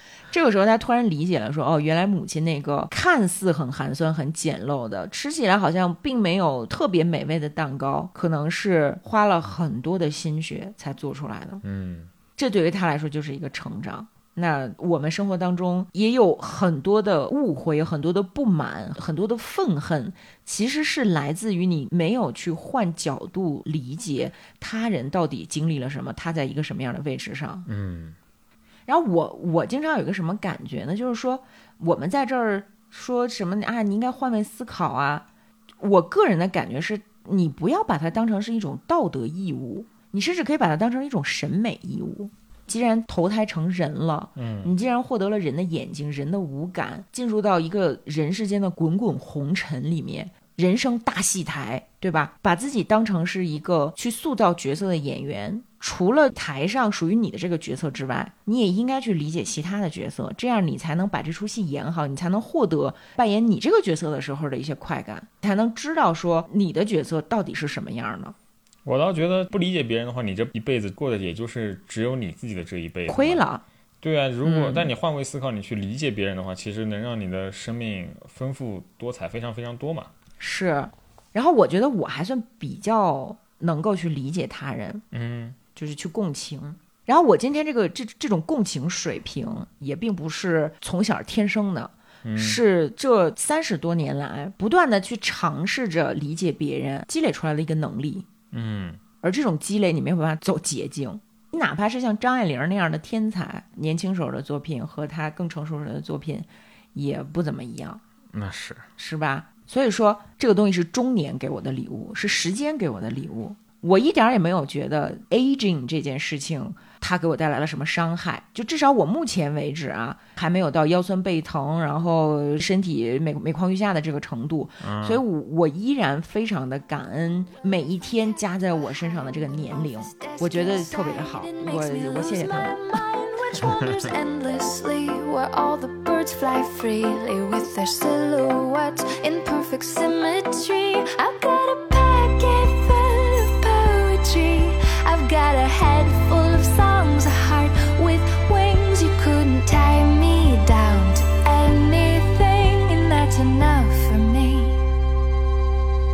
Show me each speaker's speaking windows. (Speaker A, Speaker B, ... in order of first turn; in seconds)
Speaker A: 0.3-11.6, 12.4-27.7, 28.9-35.3, 35.8-68.3, 73.1-73.6, 74.4-74.9, 80.4-85.0, 85.8-98.3, 99.2-108.0, 109.0-132.9
Speaker B: 11.6-12.1, 27.7-28.2, 44.4-44.7, 68.8-73.5, 74.0-80.1, 85.1-85.6, 92.2-92.6, 98.5-99.0, 108.3-108.9, 124.8-125.2, 133.6-134.1
Speaker C: 129.7-154.8